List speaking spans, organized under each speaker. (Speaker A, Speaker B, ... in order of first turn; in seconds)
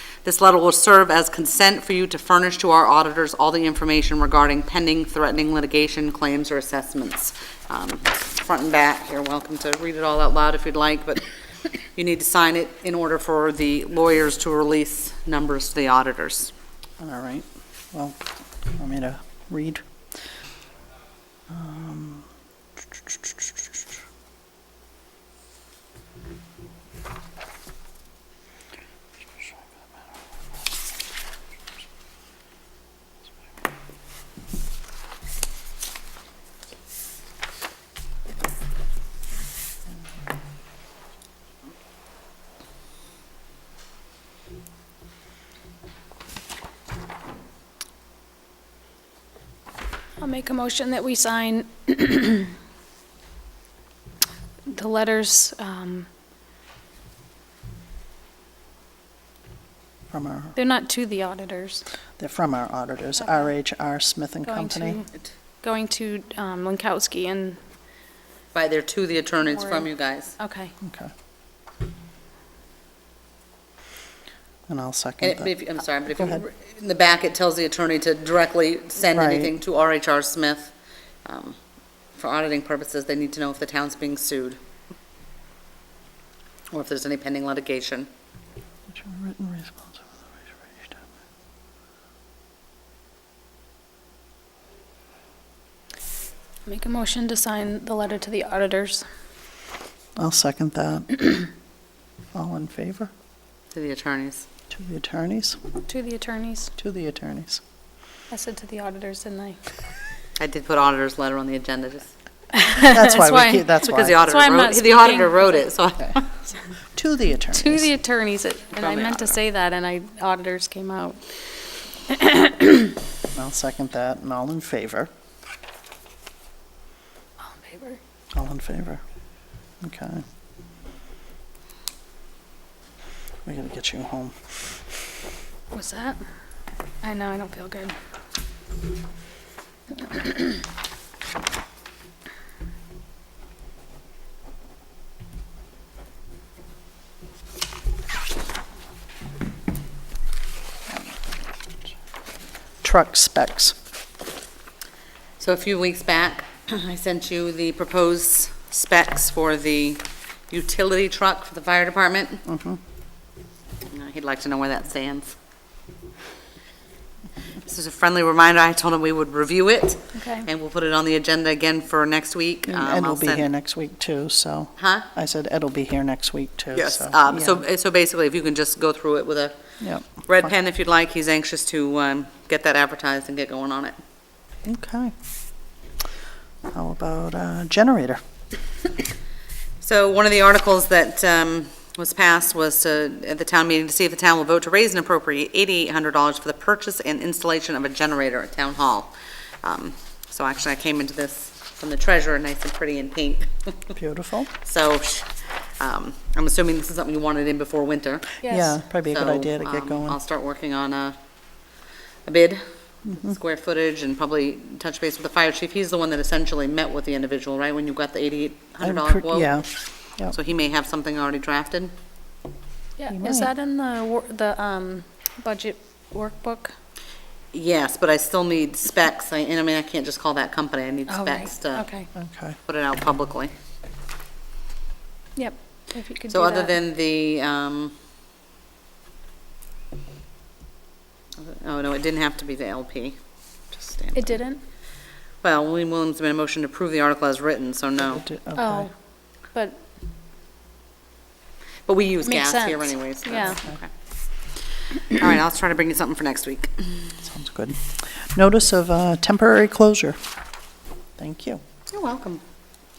Speaker A: 0.2-11.3, 11.9-16.5, 68.5-70.3, 75.2-80.7, 81.2-81.6, 82.2-84.6, 86.7-88.1, 103.7-104.5, 110.4-112.1, 113.9-116.3, 118.8-119.4, 155.4-162.4, 163.9-165.4, 167.6-173.5, 174.8-175.1, 176.7-179.6, 180.2-184.0, 189.8-203.9, 204.6-208.4, 209.1-211.2, 212.2-219.6, 220.3-221.9, 227.5-231.9, 232.7-233.5, 236.3-237.9, 241.4-243.2, 243.7-244.4, 245.4-248.2, 251.8-253.9, 255.1-257.2, 261.9-262.4
Speaker B: 17.0-18.2, 18.8-19.8, 21.5-22.2, 23.1-23.4, 60.1-60.5, 62.2-65.0, 70.8-71.1, 74.7-75.5, 76.1-76.4, 79.1-79.5, 88.9-91.0, 100.2-101.5, 102.3-103.1, 104.7-105.6, 106.8-107.6, 112.8-114.2, 116.9-117.9, 123.3-125.1, 128.3-129.0, 129.8-130.2, 133.4-134.3, 152.8-153.8, 162.5-162.8, 172.7-177.6, 179.8-180.5, 184.7-185.1, 186.7-188.2, 203.9-204.5, 208.4-210.2, 218.8-220.3, 223.1-223.5, 232.2-232.6, 248.1-248.9, 257.2-260.2, 261.2-261.6
Speaker C: 50.2-52.5, 54.7-56.1, 60.5-61.8, 63.2-63.5, 64.4-65.1, 65.6-67.6, 69.6-70.8, 96.7-99.1, 105.9-106.7, 108.3-109.6, 112.5-115.6, 117.5-121.2, 122.1-123.0, 127.4-128.0, 135.7-136.2, 137.0-138.0, 140.1-140.4, 170.2-170.5, 208.4-208.8, 223.0-226.7, 231.1-232.1, 235.4-236.8, 244.2-244.6, 248.6-248.9, 249.5-249.8, 252.2-253.6